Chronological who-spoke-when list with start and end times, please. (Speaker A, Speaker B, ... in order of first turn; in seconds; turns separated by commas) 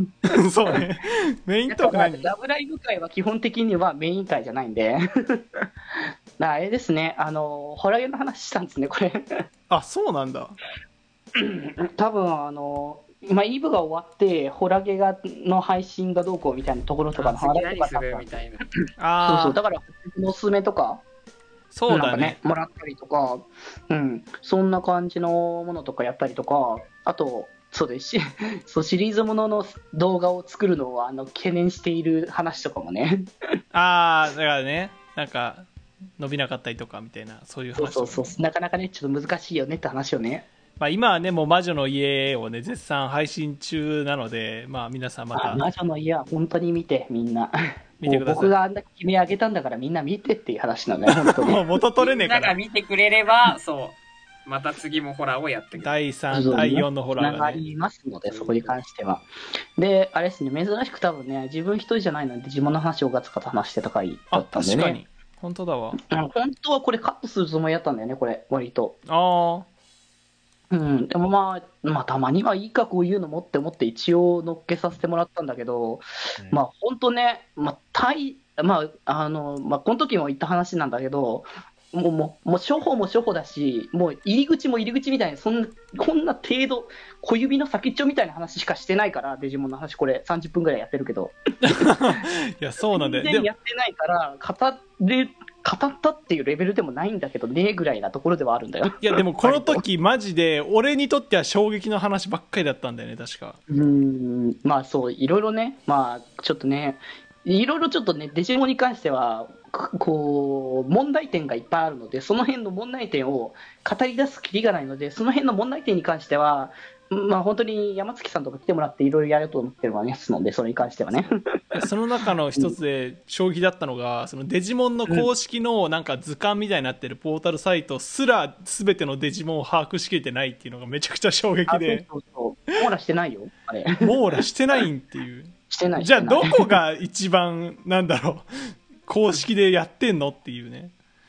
Speaker A: 0.3-2.3, Speaker B: 1.7-5.6, Speaker B: 6.4-9.2, Speaker A: 9.7-10.6, Speaker B: 11.4-18.6, Speaker C: 17.2-18.6, Speaker A: 19.0-19.6, Speaker B: 19.2-21.0, Speaker A: 21.7-22.4, Speaker B: 21.9-33.3, Speaker A: 33.7-35.7, Speaker A: 36.2-38.4, Speaker B: 37.7-40.5, Speaker A: 40.8-45.6, Speaker B: 45.3-51.6, Speaker A: 48.0-48.5, Speaker A: 51.3-52.5, Speaker C: 52.0-55.9, Speaker A: 55.8-57.6, Speaker B: 56.3-59.3, Speaker C: 58.3-58.8, Speaker B: 59.8-65.0, Speaker A: 64.3-66.0, Speaker B: 66.1-69.0, Speaker A: 69.1-69.7, Speaker B: 70.7-91.4, Speaker A: 91.6-93.5, Speaker B: 93.0-99.8, Speaker A: 99.0-103.6, Speaker B: 103.7-121.8, Speaker A: 121.8-132.1, Speaker B: 131.7-134.1, Speaker A: 134.0-140.9, Speaker B: 135.7-136.8